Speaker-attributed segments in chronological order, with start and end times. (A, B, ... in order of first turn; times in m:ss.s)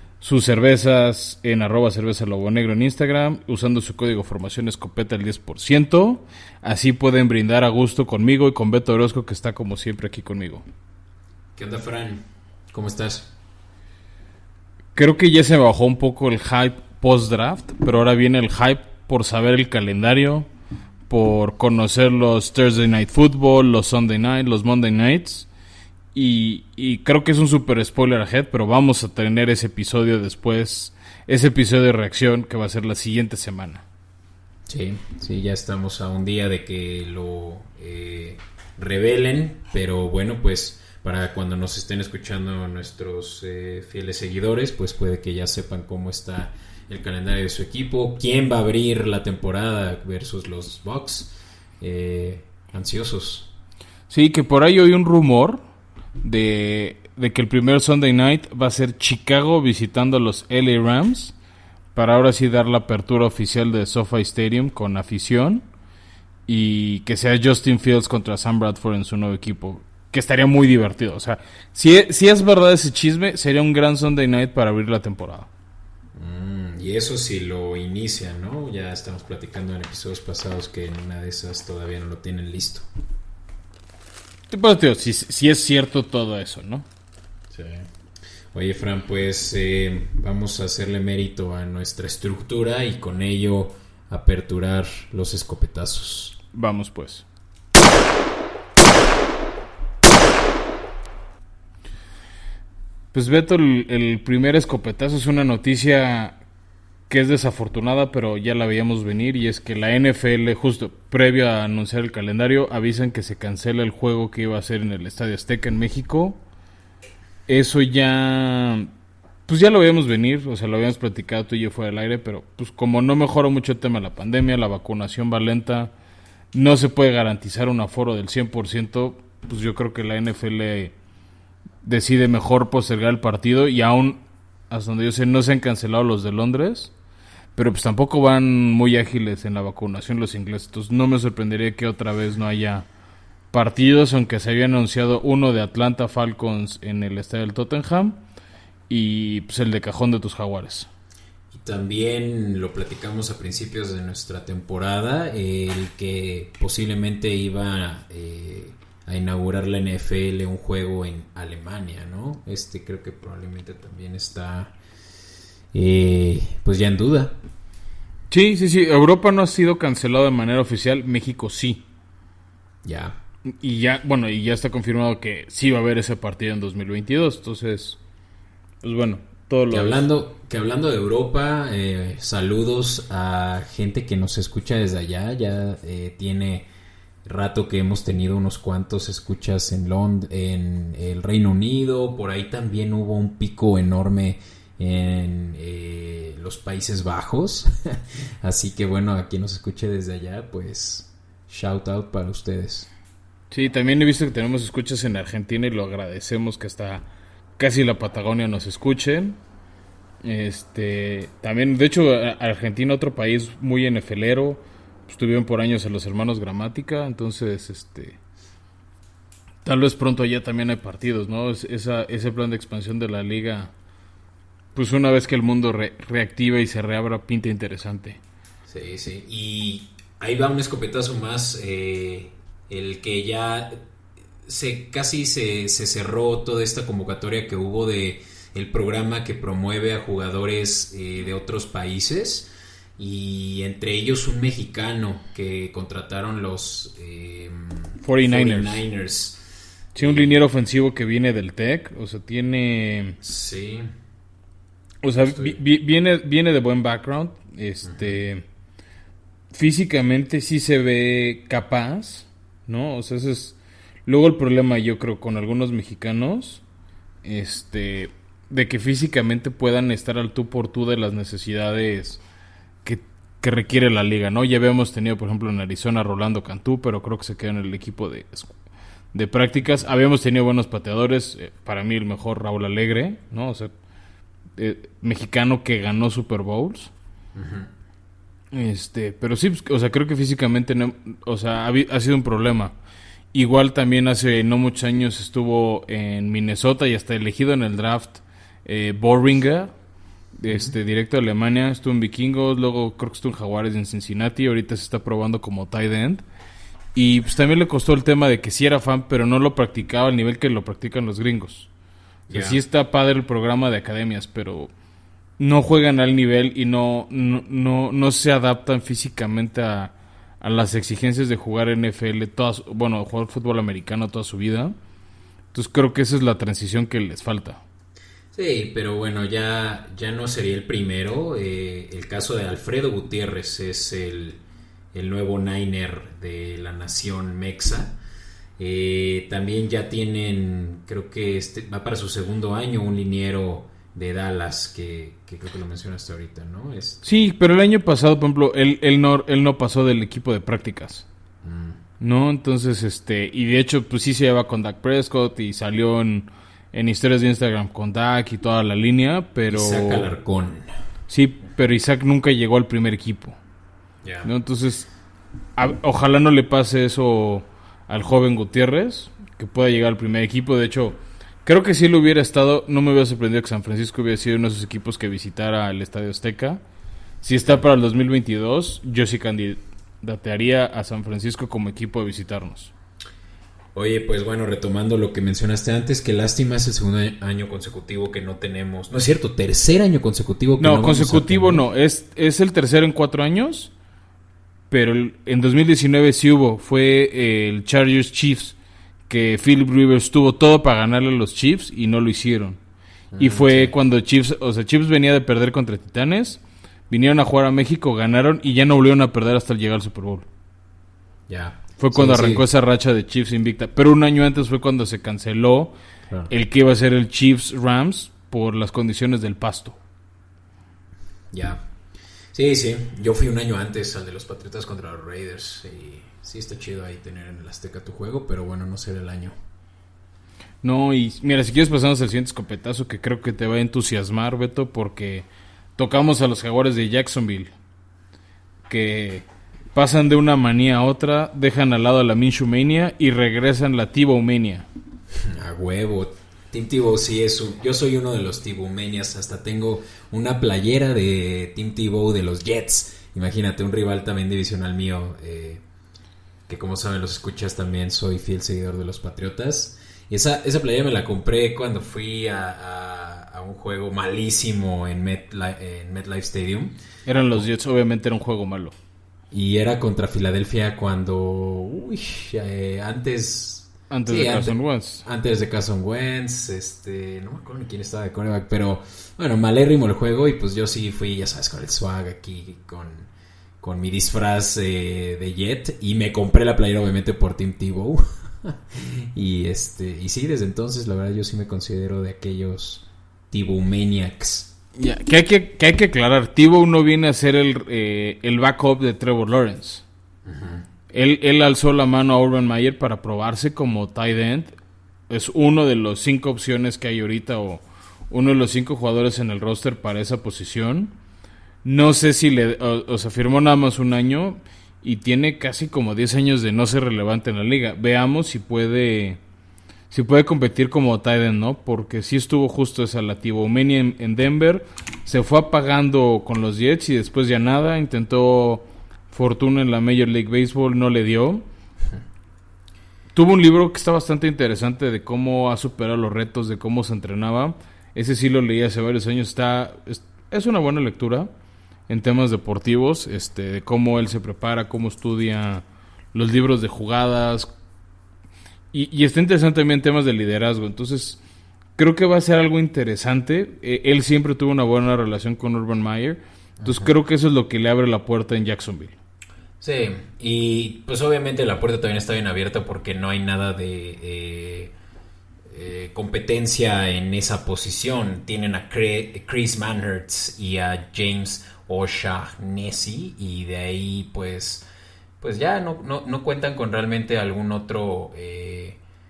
0:00.2-0:10.6 A
0:11.5-0:13.3 B
0:15.0-0:20.5 A
0:21.1-0:25.5 A
0:26.1-0:33.8 A
0:34.7-0:53.5 B
0:54.1-0:55.6 A
0:56.2-1:01.3 A
1:01.9-1:05.6 A
1:06.5-1:15.5 A
1:16.1-1:22.8 B
1:24.5-1:26.8 A
1:27.5-1:27.9 B
1:28.5-1:36.4 B
1:36.5-1:37.2 A
1:43.1-1:46.4 A
1:47.1-1:56.4 A
1:57.5-1:58.9 A
1:59.4-2:05.9 A
2:06.5-2:10.9 A
2:11.8-2:16.9 A
2:17.5-2:22.9 A
2:23.5-2:28.2 A
2:28.9-2:30.9 A
2:31.5-2:44.7 B
2:45.7-2:47.4 B
2:48.3-2:51.8 A
2:52.8-2:53.2 B
2:53.5-2:58.0 A
2:58.8-3:00.1 A
2:59.7-3:06.7 B
3:07.2-3:22.9 B
3:23.5-3:27.0 A
3:27.6-3:29.4 A
3:30.2-3:38.2 A
3:39.6-3:43.7 A
3:44.7-3:48.2 A
3:48.7-3:53.8 B
3:54.4-4:09.4 B
4:08.0-4:08.8 A
4:09.9-4:13.2 A
4:10.0-4:10.4 B
4:13.2-4:13.9 B
4:15.0-4:18.4 A
4:15.3-4:15.6 B
4:17.8-4:18.2 B
4:19.5-4:26.6 A
4:27.2-4:32.2 A
4:32.8-4:38.5 A
4:39.1-4:43.7 A
4:44.6-4:46.9 A
4:47.3-4:47.7 B
4:48.5-4:52.7 A
4:53.3-4:59.7 A
5:00.4-5:06.2 A
5:00.5-5:00.7 B
5:06.9-5:11.7 A
5:12.3-5:12.6 B
5:12.3-5:14.7 A
5:15.4-5:24.7 A
5:25.5-5:27.6 A
5:28.3-5:34.4 B
5:34.9-5:38.0 B
5:38.6-5:47.0 B
5:47.0-5:51.0 A
5:51.4-5:51.8 B
5:52.0-6:00.1 A
5:59.5-6:00.7 B
6:01.1-6:03.4 A
6:04.0-6:04.3 B
6:04.2-6:04.9 A
6:05.6-6:16.6 A
6:17.2-6:22.7 A
6:23.7-6:31.6 B
6:30.6-6:33.7 A
6:34.7-6:38.5 A
6:39.1-6:42.6 A
6:43.1-6:43.7 B
6:43.2-6:50.2 A
6:51.3-6:52.4 B
6:51.8-6:55.7 A
6:56.3-6:59.8 A
7:01.3-7:01.6 B
7:02.3-7:09.4 B
7:10.6-7:17.5 A
7:18.7-7:24.6 A
7:25.1-7:35.6 B
7:36.5-7:46.8 B
7:47.0-7:48.7 A
7:49.3-8:03.1 B
7:53.9-7:55.0 A
8:03.6-8:14.5 B
8:14.8-8:19.8 A
8:20.2-8:20.6 B
8:20.9-8:24.5 A
8:25.1-8:30.9 A
8:31.6-8:39.2 A
8:39.9-8:51.4 A
8:53.1-9:01.3 A
9:01.9-9:07.5 A
9:08.7-9:11.2 A
9:11.8-9:19.0 A
9:16.6-9:16.9 B
9:19.6-9:24.7 B
9:25.5-9:34.6 B
9:35.2-9:38.8 B